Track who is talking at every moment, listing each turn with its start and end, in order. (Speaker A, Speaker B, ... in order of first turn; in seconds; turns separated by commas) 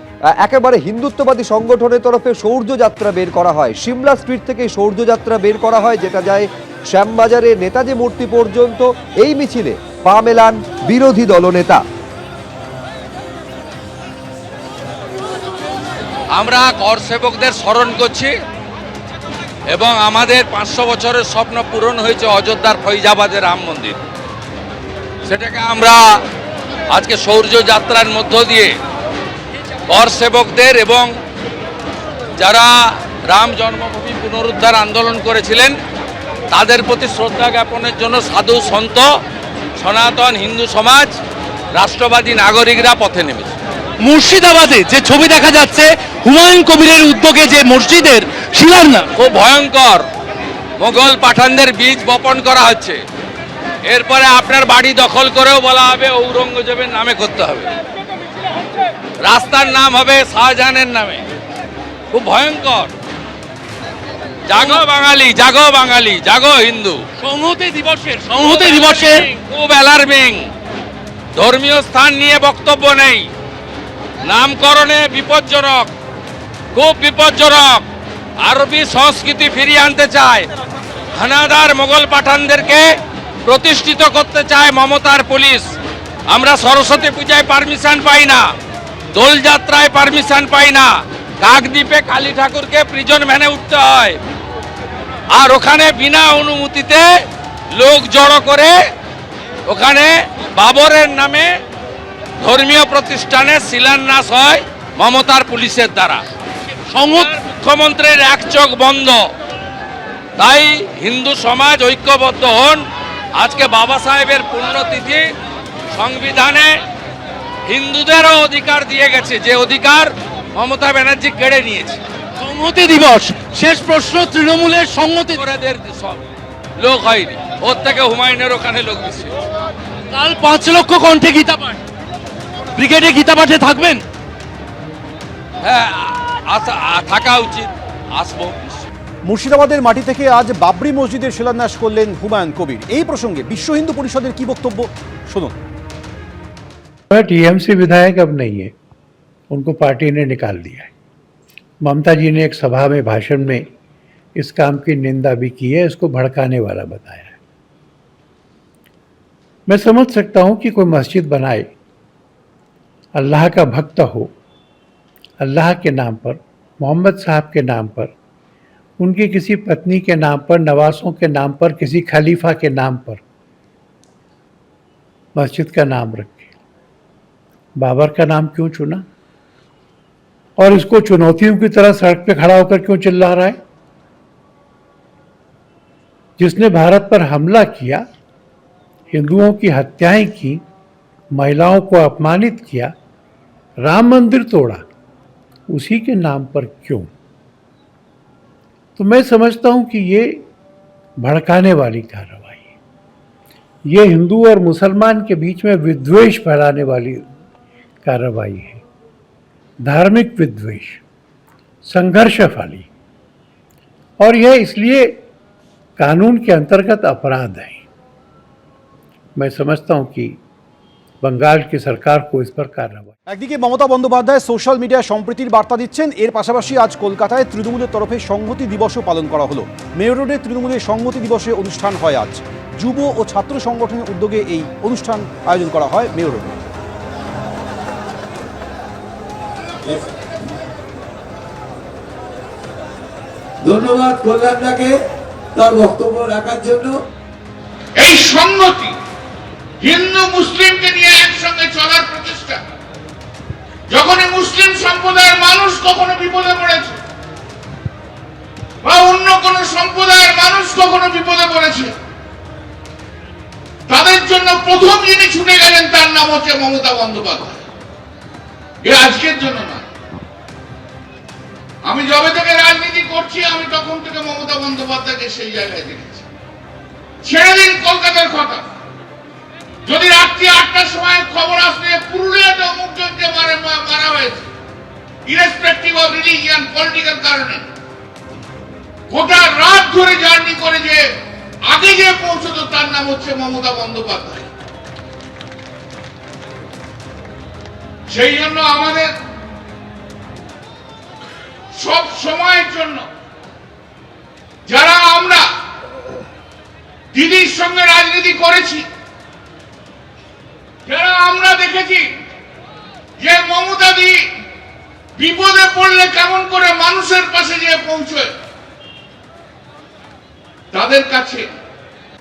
Speaker A: 0.4-11.8, Speaker B: 16.3-18.3, Speaker B: 19.7-24.0, Speaker B: 25.2-26.2, Speaker B: 26.9-28.8, Speaker B: 29.9-31.1, Speaker B: 32.4-35.7, Speaker B: 36.5-39.1, Speaker B: 39.8-41.1, Speaker B: 41.7-43.5, Speaker C: 44.0-49.1, Speaker B: 49.1-50.0, Speaker B: 50.8-53.0, Speaker B: 53.9-57.7, Speaker B: 59.2-61.2, Speaker B: 62.1-62.9, Speaker B: 64.5-67.0, Speaker C: 67.2-69.3, Speaker B: 68.4-70.5, Speaker B: 71.3-73.3, Speaker B: 74.2-75.9, Speaker B: 76.7-77.8, Speaker B: 78.4-80.5, Speaker B: 81.2-82.9, Speaker B: 83.5-85.7, Speaker B: 86.3-88.5, Speaker B: 89.1-94.2, Speaker B: 95.3-97.1, Speaker B: 97.7-98.8, Speaker B: 99.7-101.5, Speaker B: 102.4-106.2, Speaker C: 106.9-107.3, Speaker B: 107.2-109.2, Speaker B: 110.4-112.8, Speaker B: 113.3-115.2, Speaker B: 115.9-116.8, Speaker B: 117.7-122.0, Speaker C: 122.4-125.4, Speaker B: 125.3-126.2, Speaker B: 126.8-129.3, Speaker C: 130.1-131.8, Speaker C: 132.8-134.0, Speaker B: 135.6-138.8, Speaker D: 139.3-145.6, Speaker E: 147.1-148.7, Speaker E: 149.5-150.9, Speaker E: 151.8-153.6, Speaker E: 154.4-157.4, Speaker E: 159.7-161.7, Speaker E: 163.1-164.3, Speaker E: 165.4-168.1, Speaker E: 169.0-173.2, Speaker E: 175.3-176.5, Speaker E: 177.8-179.0, Speaker E: 180.6-183.6, Speaker E: 186.4-188.0, Speaker E: 189.1-190.6, Speaker E: 191.3-192.9, Speaker E: 193.8-194.8, Speaker E: 195.7-197.1, Speaker E: 199.0-200.4, Speaker E: 201.2-202.7, Speaker E: 203.9-207.3, Speaker E: 208.0-208.8, Speaker E: 209.8-211.0, Speaker E: 211.8-212.9, Speaker E: 214.2-215.2, Speaker E: 216.0-217.8, Speaker E: 219.4-220.4, Speaker E: 221.2-223.1, Speaker D: 223.3-236.6, Speaker F: 243.7-244.9, Speaker F: 245.6-246.9, Speaker G: 248.0-248.9, Speaker G: 249.8-252.6, Speaker G: 253.9-257.0, Speaker G: 258.8-261.9, Speaker G: 263.9-267.6, Speaker G: 268.8-269.8, Speaker G: 271.8-276.2, Speaker G: 277.2-278.7, Speaker G: 279.8-284.5, Speaker G: 285.3-287.6, Speaker G: 289.1-291.0, Speaker G: 291.7-294.5, Speaker G: 298.1-299.1, Speaker G: 301.7-303.0, Speaker G: 304.7-305.4, Speaker G: 307.1-308.9, Speaker G: 310.9-312.1, Speaker G: 313.2-314.2, Speaker G: 315.2-318.3, Speaker G: 320.7-321.5